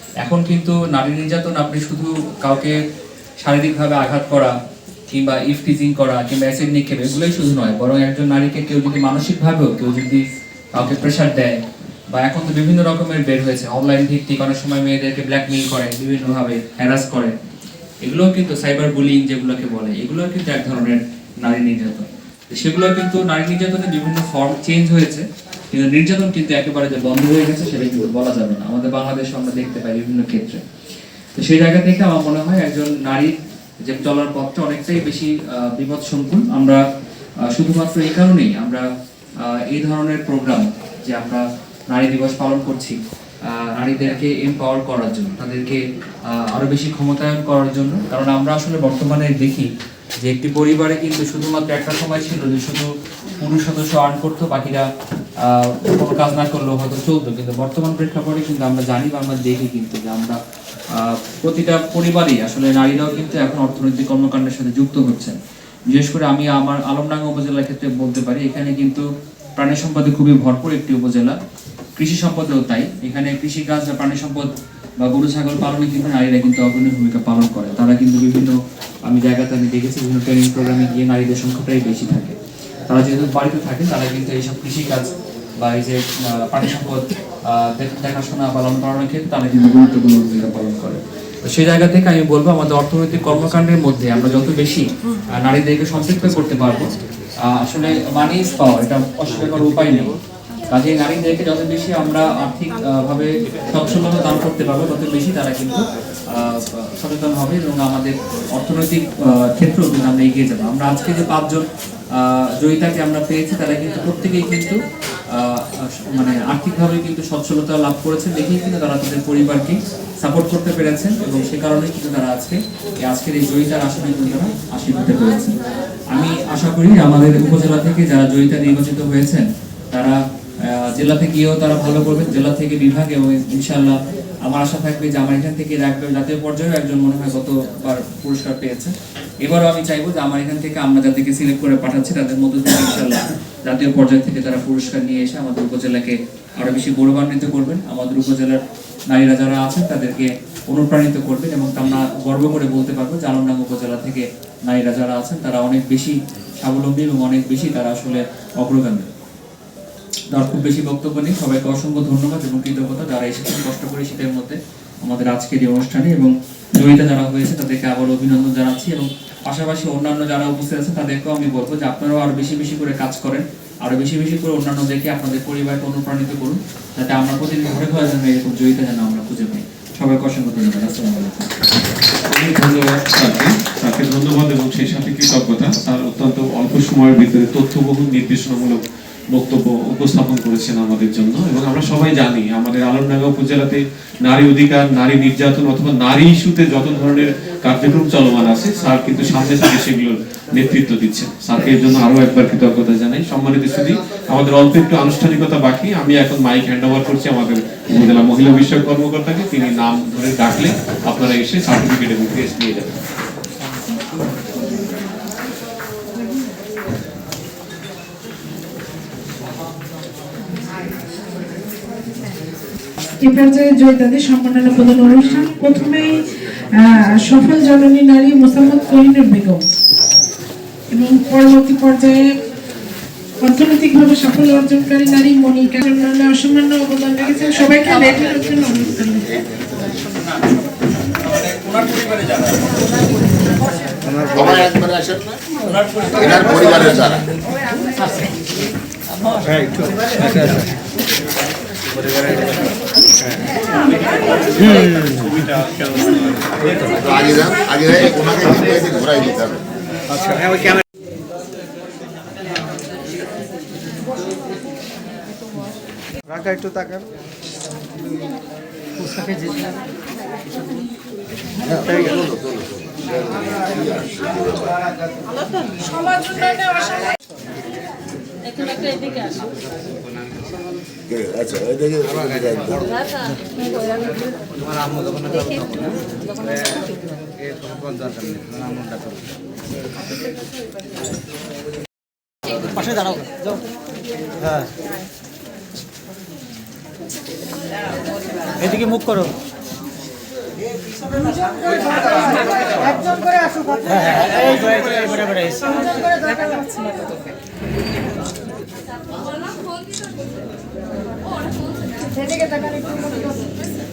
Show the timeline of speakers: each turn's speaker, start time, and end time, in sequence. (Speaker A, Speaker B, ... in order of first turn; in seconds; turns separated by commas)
Speaker A: 0.2-2.8, Speaker A: 3.4-4.5, Speaker A: 5.1-10.2, Speaker A: 10.8-11.6, Speaker A: 12.1-17.4, Speaker A: 18.0-30.6, Speaker A: 31.4-33.3, Speaker A: 33.9-36.8, Speaker A: 37.5-38.9, Speaker A: 39.4-49.7, Speaker A: 50.2-54.9, Speaker A: 55.4-60.4, Speaker A: 60.9-65.4, Speaker A: 65.9-69.1, Speaker A: 69.6-71.4, Speaker A: 72.0-82.4, Speaker A: 82.9-96.9, Speaker A: 97.5-100.2, Speaker A: 100.7-114.8, Speaker A: 115.3-125.6, Speaker A: 126.1-159.1, Speaker A: 160.3-181.5, Speaker B: 182.3-188.8, Speaker B: 189.3-213.0, Speaker C: 223.2-229.6, Speaker C: 230.9-232.3, Speaker C: 233.4-239.4, Speaker A: 241.3-242.6, Speaker D: 244.3-245.4, Speaker D: 246.1-247.3, Speaker E: 250.2-250.6, Speaker E: 254.6-255.3, Speaker D: 256.7-259.6, Speaker E: 266.4-267.0, Speaker D: 271.9-272.4, Speaker E: 275.9-276.3, Speaker E: 279.1-279.4, Speaker D: 281.1-282.8, Speaker E: 284.6-286.0, Speaker E: 287.4-289.2, Speaker E: 292.8-293.3, Speaker E: 298.6-299.3, Speaker E: 303.9-306.0